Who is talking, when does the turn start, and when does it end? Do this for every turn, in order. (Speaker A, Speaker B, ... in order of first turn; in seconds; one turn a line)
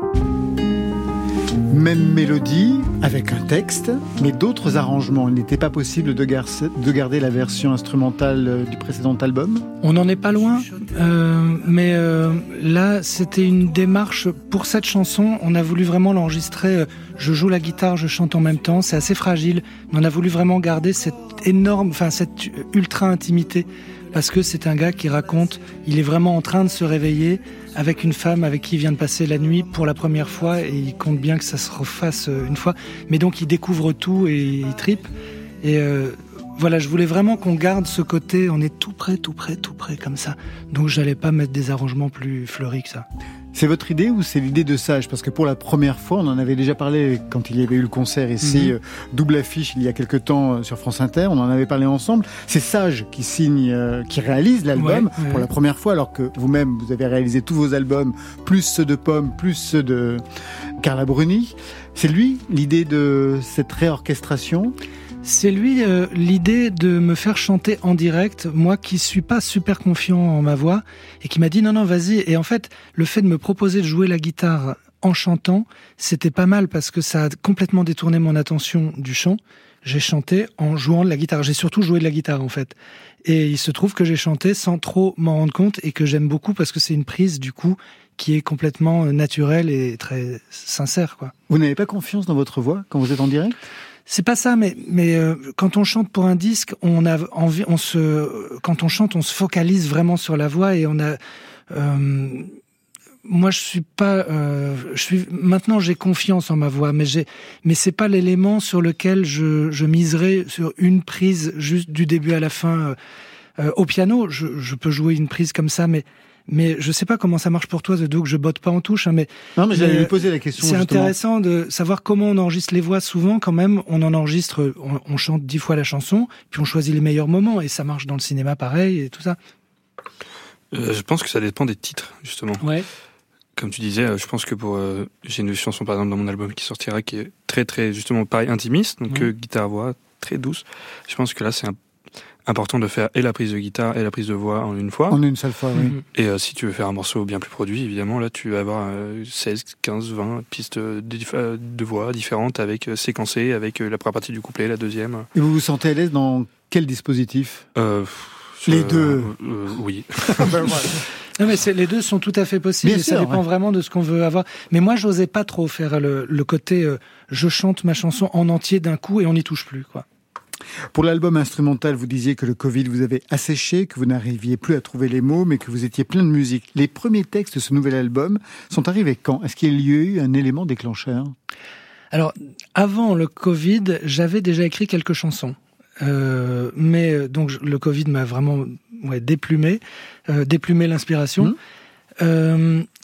Speaker A: 1.7-9.7
Speaker B: 9.8-35.1
Speaker B: 35.6-43.1
Speaker A: 43.5-60.2
Speaker B: 48.4-48.7
Speaker B: 54.8-55.5
Speaker A: 60.8-64.8
Speaker B: 65.2-91.3
Speaker A: 91.5-93.6
Speaker B: 94.1-101.2
Speaker B: 101.7-102.5
Speaker B: 103.2-113.0
Speaker B: 113.6-129.4
Speaker A: 119.6-121.1
Speaker C: 130.7-132.6
Speaker C: 133.6-141.8
Speaker C: 142.5-145.2
Speaker A: 145.1-145.9
Speaker B: 145.8-146.0
Speaker C: 146.1-155.3
Speaker A: 155.3-157.7
Speaker C: 157.8-160.9
Speaker A: 158.7-159.3
Speaker A: 160.3-161.0
Speaker B: 161.4-170.1
Speaker A: 162.8-163.4
Speaker A: 170.9-181.3
Speaker B: 182.1-191.6
Speaker B: 192.2-192.9